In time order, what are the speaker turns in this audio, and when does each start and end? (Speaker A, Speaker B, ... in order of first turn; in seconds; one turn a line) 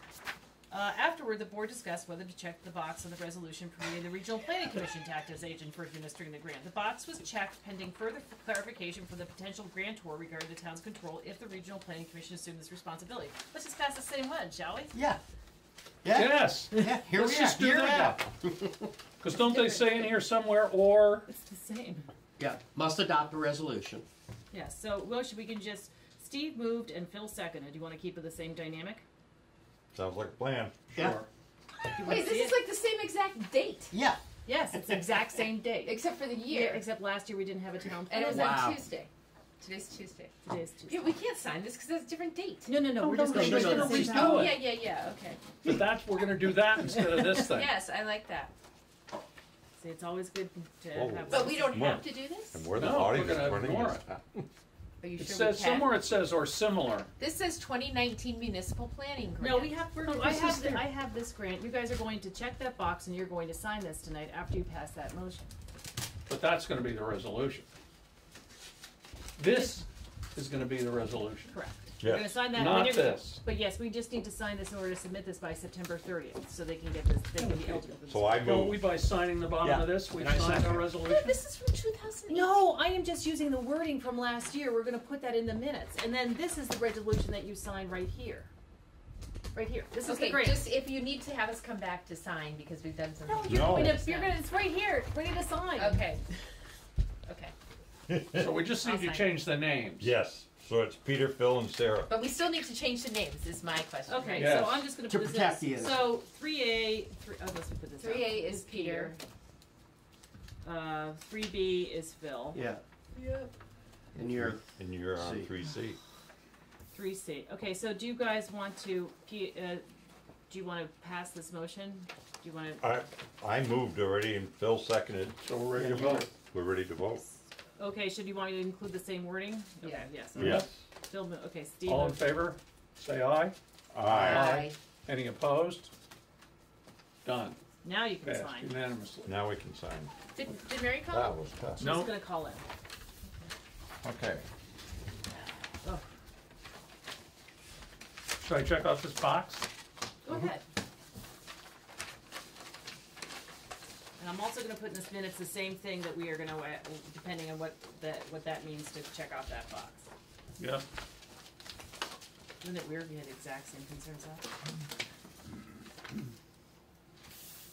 Speaker A: 0.7-14.9
Speaker B: 14.9-15.2
Speaker B: 16.0-18.9
Speaker C: 16.1-18.2
Speaker C: 19.2-21.3
Speaker A: 19.3-20.1
Speaker A: 21.3-22.1
Speaker B: 22.4-24.0
Speaker A: 24.5-29.0
Speaker D: 29.9-31.2
Speaker B: 30.9-31.2
Speaker C: 31.0-31.3
Speaker A: 31.9-32.6
Speaker E: 32.0-34.0
Speaker B: 33.9-35.2
Speaker A: 34.5-38.6
Speaker E: 35.8-36.8
Speaker E: 38.1-45.6
Speaker B: 38.2-38.8
Speaker A: 40.4-41.2
Speaker A: 42.7-44.6
Speaker B: 43.0-44.5
Speaker C: 43.3-44.5
Speaker C: 45.6-47.7
Speaker E: 47.4-48.5
Speaker A: 49.8-52.0
Speaker D: 50.9-54.5
Speaker E: 51.3-52.8
Speaker C: 52.8-54.0
Speaker E: 55.0-55.9
Speaker C: 55.2-57.1
Speaker E: 57.2-60.6
Speaker A: 59.4-65.5
Speaker C: 60.0-60.9
Speaker C: 66.3-67.7
Speaker C: 69.4-71.5
Speaker A: 71.5-78.5
Speaker D: 72.0-72.5
Speaker C: 72.5-73.4
Speaker C: 77.4-77.8
Speaker D: 78.1-78.8
Speaker C: 78.4-81.3
Speaker B: 79.6-80.9
Speaker A: 81.0-88.5
Speaker E: 81.1-82.6
Speaker A: 89.5-90.6
Speaker E: 90.0-94.4
Speaker A: 93.3-96.1
Speaker D: 93.5-94.0
Speaker E: 95.8-96.2
Speaker E: 97.2-97.5
Speaker D: 98.1-98.5
Speaker C: 98.3-100.1
Speaker E: 98.8-99.3
Speaker D: 100.0-102.1
Speaker E: 102.1-104.7
Speaker A: 104.1-109.2
Speaker C: 104.3-104.9
Speaker B: 105.0-106.2
Speaker E: 108.0-109.1
Speaker A: 110.6-112.6
Speaker B: 112.5-112.8
Speaker A: 113.2-113.5
Speaker B: 114.1-115.5
Speaker D: 114.2-116.0
Speaker A: 116.9-119.8
Speaker A: 120.5-122.8
Speaker D: 122.8-127.2
Speaker C: 125.4-126.3
Speaker B: 125.7-126.2
Speaker A: 127.8-132.2
Speaker E: 129.8-130.1
Speaker D: 130.3-130.8
Speaker C: 130.3-130.7
Speaker C: 131.8-133.6
Speaker D: 133.9-134.6
Speaker E: 134.1-134.8
Speaker C: 134.3-135.9
Speaker C: 137.2-137.6
Speaker A: 137.8-138.7
Speaker C: 138.2-139.4
Speaker D: 139.2-140.2
Speaker E: 140.3-141.5
Speaker D: 141.1-141.9
Speaker A: 141.8-142.7
Speaker C: 141.8-142.1
Speaker D: 144.0-144.4
Speaker C: 148.4-149.7
Speaker E: 150.2-150.6
Speaker A: 154.2-160.1
Speaker C: 160.6-160.8
Speaker A: 162.6-164.4